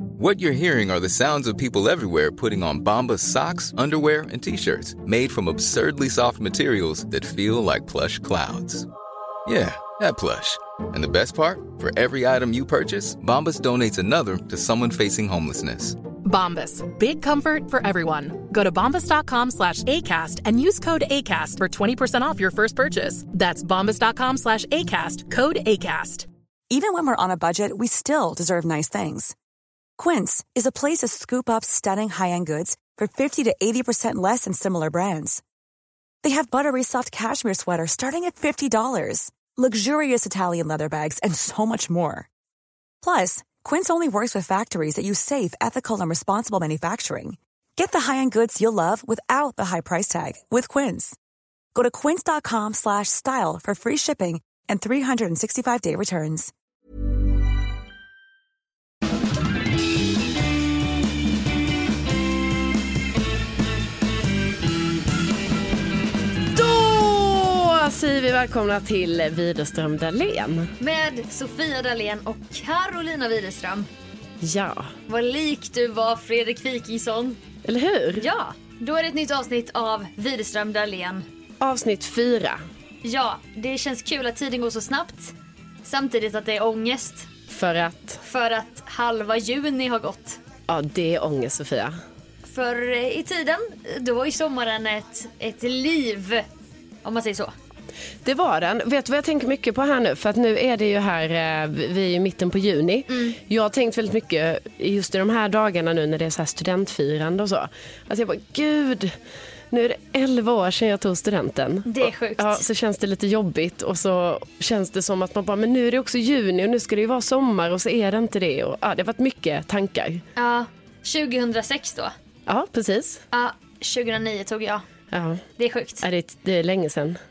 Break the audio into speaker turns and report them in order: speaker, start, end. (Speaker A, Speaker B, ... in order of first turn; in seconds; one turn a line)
Speaker A: 0.2-8.9
Speaker A: 9.5-16.0
Speaker B: 16.2-26.3
Speaker C: 26.7-29.4
Speaker C: 30.0-35.4
Speaker C: 36.2-42.3
Speaker C: 43.0-51.2
Speaker C: 51.8-56.5
Speaker D: 66.5-70.7
Speaker E: 70.8-73.9
Speaker D: 74.4-74.9
Speaker E: 75.1-77.4
Speaker D: 77.6-78.3
Speaker E: 78.2-81.2
Speaker D: 81.6-82.6
Speaker E: 83.0-87.3
Speaker D: 87.5-88.2
Speaker E: 88.2-90.4
Speaker D: 90.7-92.0
Speaker E: 92.5-96.4
Speaker E: 97.0-97.5
Speaker D: 98.2-109.2
Speaker E: 103.1-103.4
Speaker D: 109.7-120.2
Speaker E: 111.9-112.7
Speaker E: 120.4-122.1
Speaker D: 122.5-123.2
Speaker E: 123.3-124.8
Speaker D: 125.1-125.4
Speaker E: 125.6-126.0
Speaker D: 126.0-127.2